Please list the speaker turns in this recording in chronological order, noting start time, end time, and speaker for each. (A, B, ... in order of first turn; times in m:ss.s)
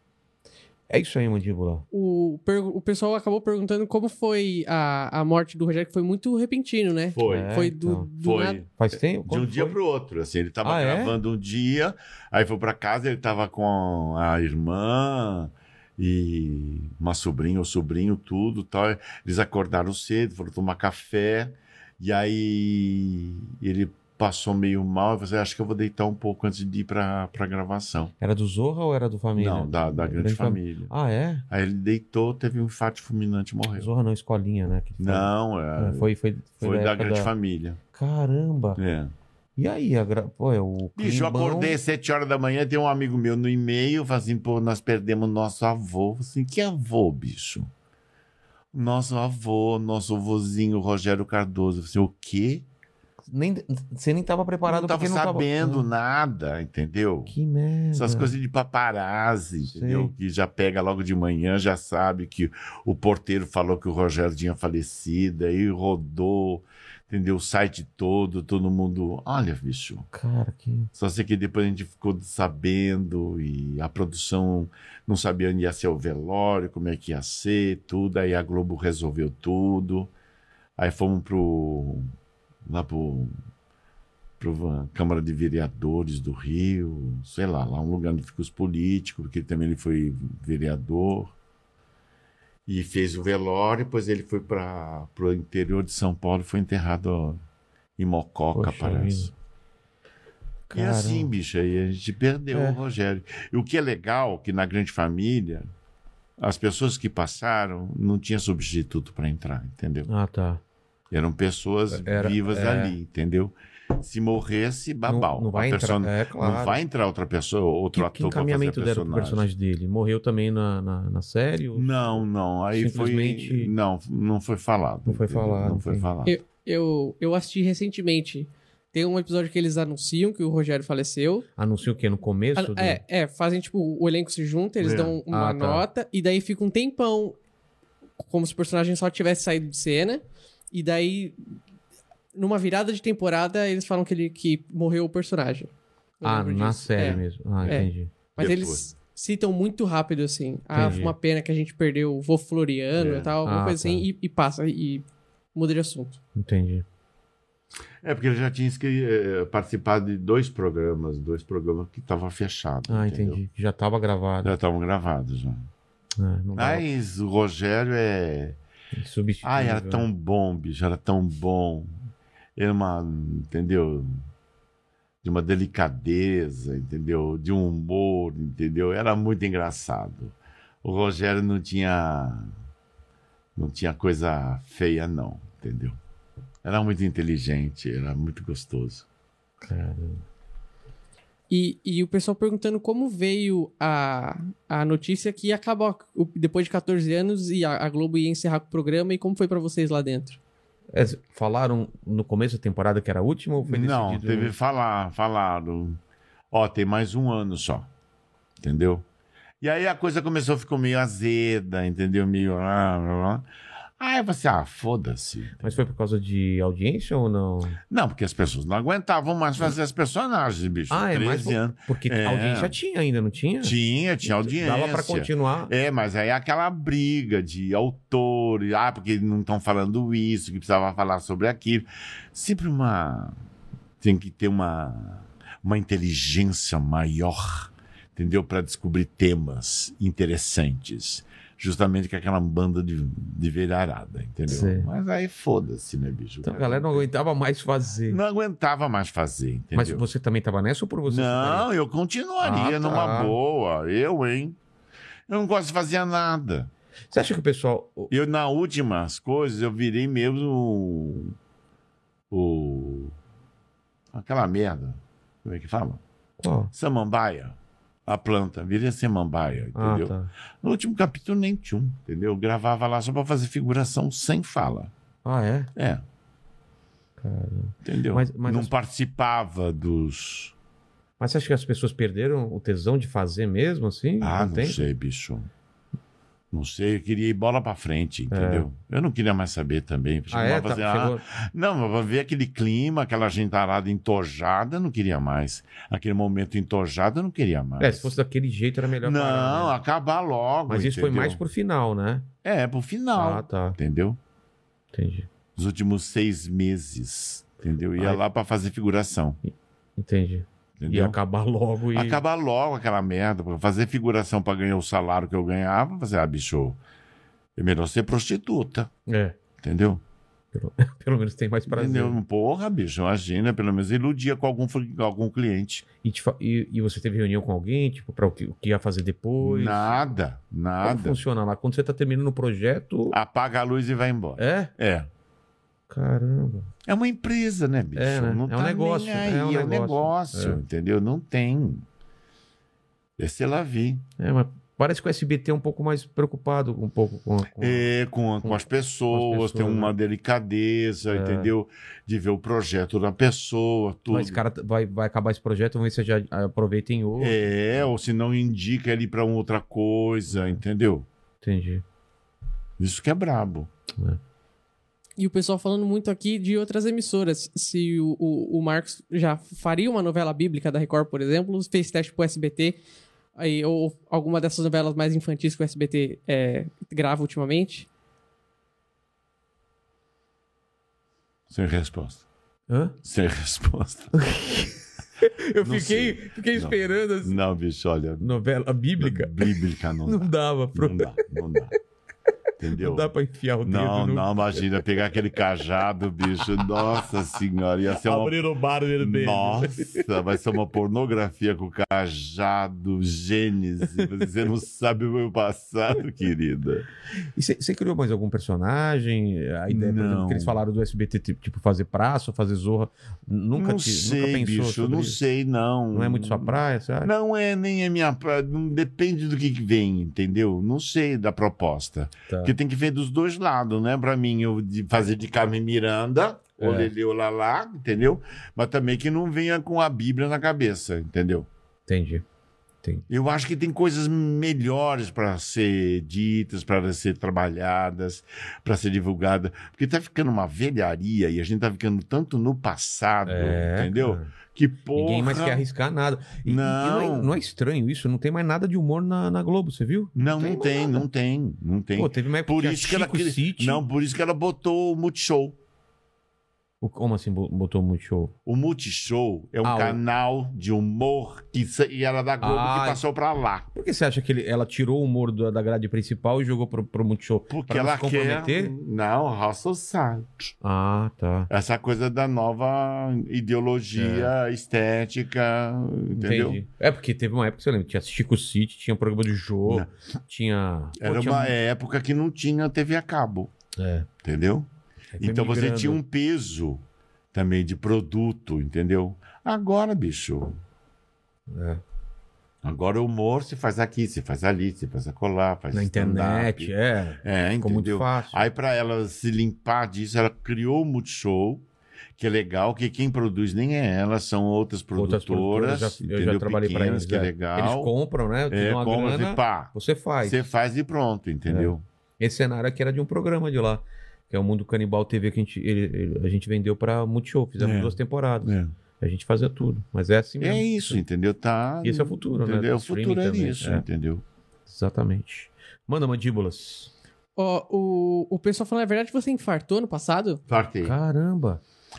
0:00.9-0:01.8 A
0:01.9-0:08.6 B
0:07.1-0:07.6 C
0:07.2-0:08.1 A
0:08.2-0:28.1 C
0:08.7-0:09.8 A
0:10.6-0:11.2 A
0:28.2-0:31.4 A
0:29.4-0:30.9 C
0:31.5-0:33.9 C
0:33.8-0:37.3 A
0:35.0-0:37.8 C
0:37.9-0:38.8 A
0:38.8-0:39.1 C
0:39.6-0:41.8 A
0:41.0-0:47.7 C
0:48.7-0:52.6 C
0:53.3-0:55.9 A
0:54.7-0:57.3 C
0:57.3-0:58.4 A
0:57.9-1:10.1 C
0:59.6-1:00.1 A
1:10.1-1:10.9 A
1:11.0-1:20.1 C
1:20.8-1:22.1 C
1:22.7-1:23.3 C
1:24.4-1:31.3 C
1:32.7-1:37.4 C
1:38.0-1:39.3 C
1:38.6-1:39.3 A
1:40.7-1:41.3 A
1:40.7-1:45.7 C
1:42.5-1:42.8 A
1:46.4-1:50.1 C
1:50.1-1:50.6 A
1:51.1-1:59.5 C
1:51.9-1:53.0 A
1:55.1-1:56.8 A
1:57.9-2:03.7 A
2:01.7-2:06.3 C
2:05.1-2:06.1 A
2:06.2-2:11.5 B
2:11.6-2:13.0 A
2:12.6-2:17.4 B
2:14.8-2:15.2 C
2:15.3-2:15.9 A
2:18.2-2:21.4 B
2:22.3-2:35.0 B
2:26.2-2:28.1 A
2:27.0-2:27.8 C
2:28.4-2:28.9 C
2:30.7-2:31.1 A
2:30.8-2:31.0 C
2:33.0-2:33.3 C
2:33.4-2:34.1 A
2:35.6-2:36.2 B
2:36.4-2:36.8 A
2:38.0-2:43.4 C
2:42.9-2:44.5 A
2:44.4-2:45.7 C
2:46.2-2:46.9 A
2:46.6-2:48.6 C
2:49.0-2:50.1 A
2:49.4-2:51.9 C
2:52.6-2:54.2 C
2:55.2-3:02.5 C
3:03.6-3:06.0 C
3:06.6-3:09.0 C
3:09.6-3:10.2 A
3:11.5-3:20.4 B
3:20.9-3:24.5 A
3:23.6-3:26.0 C
3:26.5-3:27.9 C
3:28.6-3:29.0 C
3:29.6-3:33.4 C
3:34.0-3:35.9 C
3:35.6-3:37.8 A
3:37.9-3:42.8 C
3:40.9-3:45.7 A
3:43.6-3:53.4 C
3:54.0-4:07.1 C
4:04.5-4:04.9 A
4:06.4-4:08.2 A
4:08.1-4:10.0 C
4:09.7-4:11.7 A
4:11.1-4:14.6 C
4:12.4-4:13.4 A
4:15.3-4:16.7 C
4:17.1-4:18.1 A
4:18.1-4:21.4 C
4:22.3-4:23.1 C
4:24.1-4:26.0 C
4:26.4-4:26.7 A
4:26.7-4:27.6 C
4:28.1-4:34.9 C
4:29.8-4:30.3 A
4:35.2-4:35.7 A
4:35.8-4:36.0 C
4:37.2-4:38.7 A
4:37.8-4:40.5 C
4:41.2-4:44.9 A
4:44.2-4:45.5 C
4:46.5-4:58.1 C
4:48.3-4:48.7 A
4:50.3-4:51.2 A
4:57.8-4:59.8 A
4:59.0-5:01.4 C
5:00.7-5:02.3 A
5:02.4-5:04.2 C
5:03.2-5:03.8 A
5:04.9-5:05.3 A
5:05.6-5:09.4 C
5:10.0-5:12.2 A
5:10.8-5:11.2 C
5:11.9-5:16.8 C
5:17.6-5:18.9 C
5:19.1-5:19.4 A
5:19.6-5:20.0 C
5:20.5-5:22.2 A
5:21.7-5:25.8 C
5:26.0-5:30.1 A
5:29.4-5:31.2 C
5:30.8-5:33.2 A
5:33.1-5:35.1 C
5:34.4-5:34.7 A
5:35.9-5:36.7 A
5:36.9-5:41.8 C
5:38.0-5:40.6 A
5:43.2-5:44.1 C
5:44.2-5:49.9 A
5:47.6-5:54.4 C
5:51.1-5:51.5 A
5:54.1-5:57.8 A
5:57.2-6:01.1 C
6:00.3-6:00.6 A
6:01.4-6:01.8 A
6:02.8-6:03.7 C
6:05.2-6:12.8 B
6:13.4-6:17.9 B
6:21.5-6:22.2 C
6:22.7-6:23.0 A
6:23.0-6:24.2 C
6:24.1-6:27.4 A
6:25.6-6:28.3 C
6:28.2-6:31.2 A
6:29.0-6:31.8 C
6:32.6-6:33.1 C
6:32.7-6:34.8 A
6:33.6-6:38.5 C
6:36.5-6:37.1 A
6:38.0-6:40.1 A
6:39.0-6:46.9 C
6:44.0-6:44.3 A
6:47.4-6:55.2 A
6:49.7-6:50.6 C
6:53.6-7:11.5 C
6:55.9-6:57.1 A
7:02.3-7:02.6 A
7:06.6-7:06.9 A
7:11.9-7:12.2 A
7:13.1-7:25.6 C
7:23.3-7:24.3 A
7:25.0-7:31.0 A
7:26.4-7:27.4 C
7:30.2-7:35.6 C
7:32.0-7:33.8 A
7:36.8-7:38.3 A
7:38.5-7:43.7 C
7:39.6-7:40.0 A
7:42.4-7:43.0 A
7:43.7-7:48.7 A
7:47.5-7:50.5 C
7:50.6-7:51.5 A
7:51.5-7:56.6 C
7:54.0-7:54.3 A
7:56.1-8:01.6 A
8:01.0-8:03.5 C
8:03.8-8:04.1 A
8:04.2-8:04.7 C
8:05.2-8:06.0 A
8:05.2-8:06.8 C
8:07.3-8:10.6 C
8:11.5-8:11.8 A
8:12.6-8:16.7 C
8:15.7-8:18.4 A
8:17.2-8:21.6 C
8:22.2-8:27.9 C
8:25.0-8:30.5 A
8:28.5-8:31.8 C
8:31.5-8:41.0 A
8:37.6-8:38.7 C
8:40.4-8:44.2 C
8:41.8-8:43.8 A
8:44.7-8:46.9 A
8:47.4-8:50.4 B
8:50.5-8:51.0 C
8:50.8-8:51.6 A